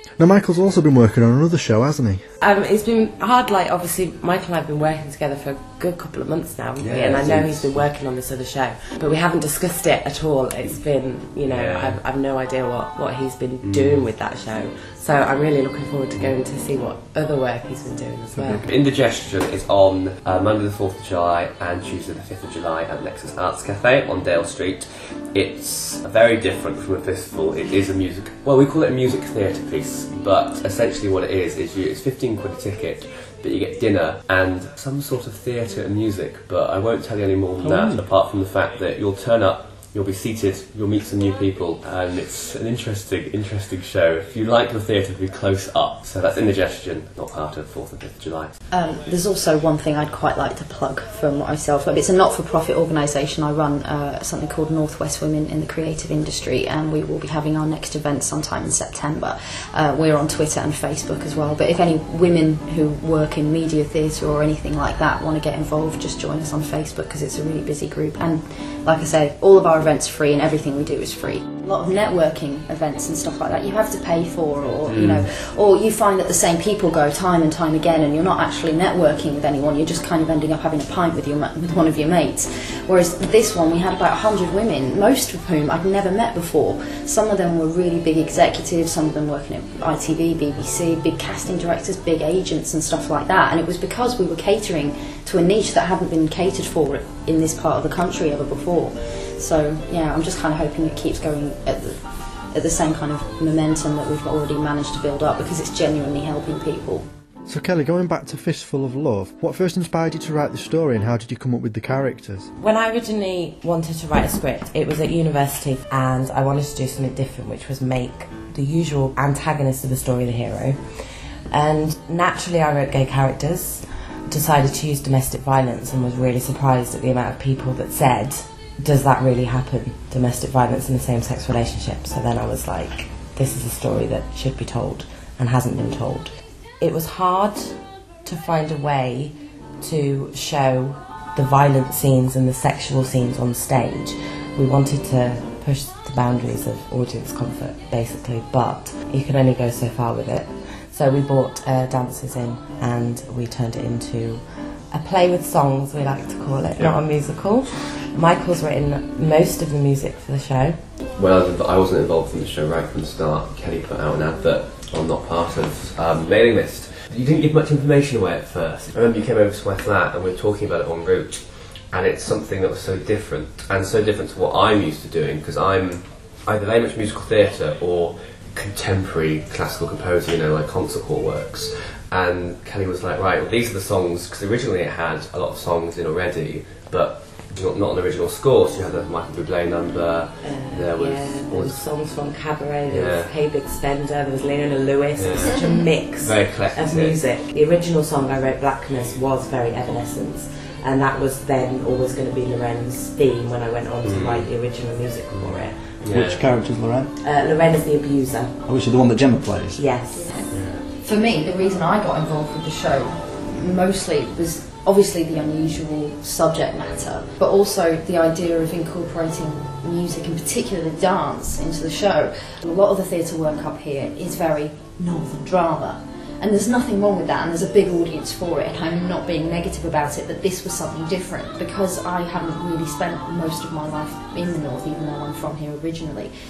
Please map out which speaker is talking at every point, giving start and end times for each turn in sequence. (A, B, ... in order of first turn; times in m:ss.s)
0:00.2-0:02.2 A
0:02.4-0:18.7 B
0:06.8-0:07.8 C
0:11.5-0:12.0 C
0:13.6-0:14.1 C
0:18.3-0:18.7 A
0:18.6-0:48.6 C
0:37.6-0:38.1 A
0:48.7-1:42.0 D
1:14.9-1:15.3 C
1:42.5-1:47.1 D
1:47.5-1:52.5 A
1:52.6-2:00.8 B
2:01.5-2:40.8 B
2:41.2-3:11.9 C
3:10.4-3:25.8 B
3:12.9-3:13.3 C
3:15.2-3:15.6 C
3:15.4-3:15.9 D
3:16.2-3:17.2 C
3:24.0-3:24.5 C
3:25.4-3:26.5 C
3:26.1-3:27.1 A
3:27.2-3:28.6 B
3:28.7-3:29.8 A
3:29.8-3:30.5 B
3:30.3-3:56.3 D
3:30.5-3:30.8 C